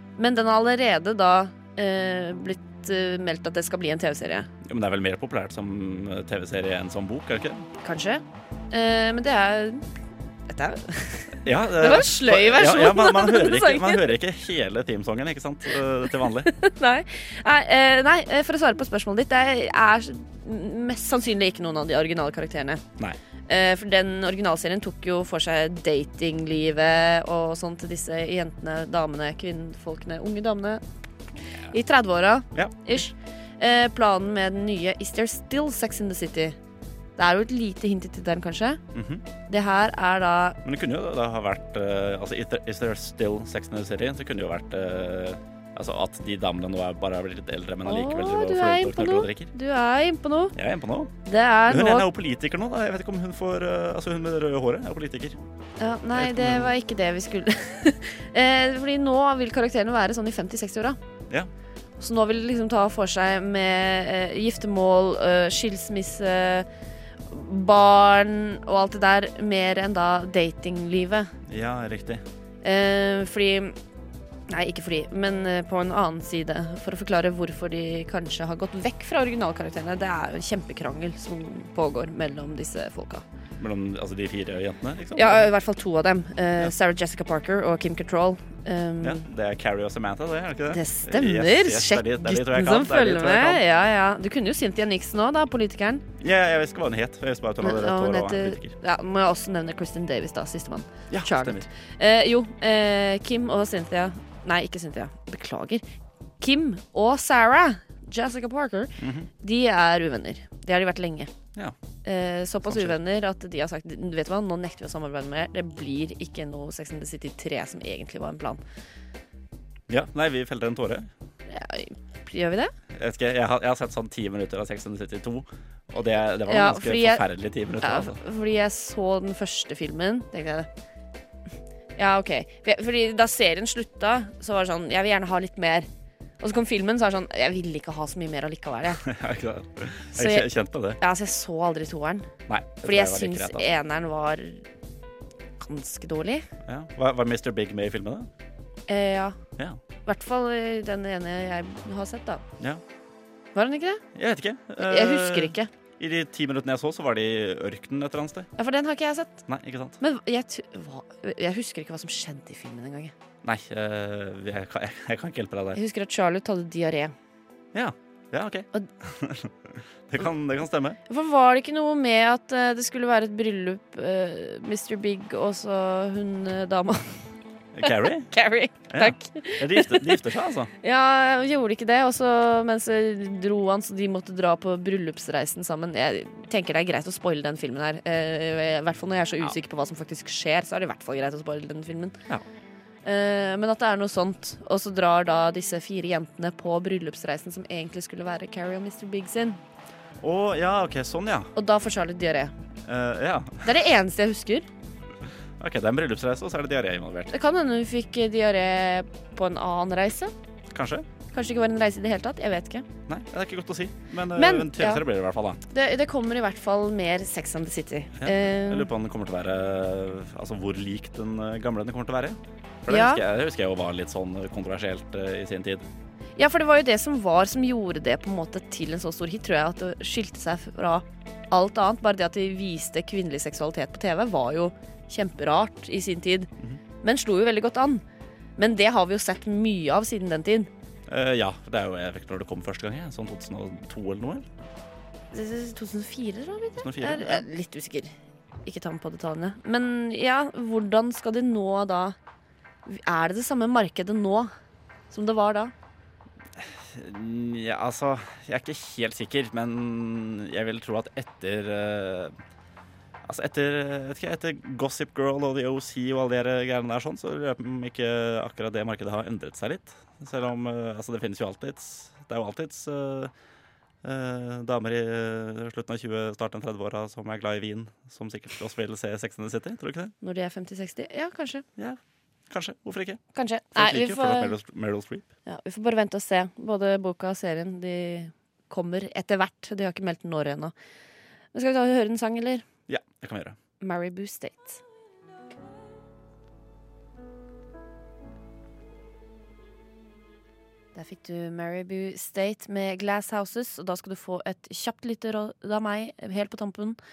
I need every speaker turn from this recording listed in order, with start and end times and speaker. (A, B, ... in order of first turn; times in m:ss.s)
0:00.2-0:04.5 A
0:04.6-0:07.6 B
0:07.8-0:09.8 A
0:10.5-0:14.1 A
0:11.4-0:16.5 B
0:16.4-0:22.8 A
0:23.5-0:30.8 A
0:31.7-0:36.6 A
0:32.5-0:33.1 B
0:37.2-0:38.8 A
0:38.9-0:39.2 B
0:39.5-0:40.6 A
0:40.6-0:49.5 B
0:47.8-0:50.6 A
0:50.5-0:51.1 B
0:51.2-0:52.1 A
0:51.7-0:55.4 B
0:55.8-1:01.0 A
0:56.2-0:56.7 B
1:02.0-1:06.7 A
1:07.3-1:11.3 A
1:11.5-1:12.2 B
1:12.6-1:13.8 A
1:14.5-1:23.2 A
1:23.6-1:25.5 B
1:25.2-1:29.2 A
1:29.0-1:33.6 B
1:30.7-1:36.0 A
1:36.2-1:38.7 B
1:37.6-1:45.8 A
1:41.1-1:41.7 B
1:46.4-1:51.3 A
1:49.0-1:49.3 B
1:52.0-1:58.6 A
1:52.6-1:53.0 B
1:59.9-2:01.1 B
2:01.5-2:02.7 A
2:02.9-2:08.2 B
2:06.4-2:07.2 A
2:07.8-2:10.7 A
2:12.0-2:15.9 A
2:16.4-2:19.0 A
2:19.0-2:21.0 B
2:20.1-2:22.3 A
2:22.5-2:23.7 B
2:22.8-2:24.6 A
2:25.6-2:26.5 A
2:26.6-2:28.3 B
2:28.9-2:29.4 A
2:30.0-2:32.4 A
2:33.5-2:34.0 A
2:34.1-2:38.5 B
2:34.8-2:35.7 A
2:38.6-2:39.4 A
2:39.5-2:40.0 B
2:40.0-2:43.1 A
2:43.4-2:45.8 B
2:45.7-2:47.1 A
2:47.7-2:51.0 B
2:51.1-2:57.2 A
2:57.7-2:58.3 B
2:57.8-3:00.2 A
2:58.9-3:00.7 B
3:00.8-3:12.2 A
3:13.0-3:19.6 A
3:20.2-3:21.5 B
3:21.6-3:22.5 A
3:22.8-3:23.7 B
3:23.6-3:24.7 A
3:25.6-3:27.3 B
3:27.3-3:30.3 A
3:30.7-3:31.0 B
3:31.3-3:32.8 A
3:33.1-3:35.6 B
3:34.3-3:35.0 A
3:35.7-3:38.9 A
3:38.2-3:45.9 B
3:42.9-3:43.2 A
3:46.4-3:56.5 A
3:57.0-3:58.0 A
3:58.6-4:00.7 A
4:01.1-4:04.5 B
4:05.3-4:08.1 A
4:06.8-4:07.4 B
4:08.6-4:12.2 A
4:12.8-4:14.5 A
4:15.1-4:15.7 A
4:16.6-4:22.3 B
4:23.2-4:33.3 B
4:34.0-4:40.1 B
4:40.2-4:41.6 A
4:41.8-4:43.2 B
4:43.3-4:44.6 A
4:43.7-4:45.3 B
4:45.4-4:50.7 A
4:51.5-4:52.6 A
4:52.9-4:53.6 B
4:53.8-4:54.8 A
5:00.9-5:07.0 A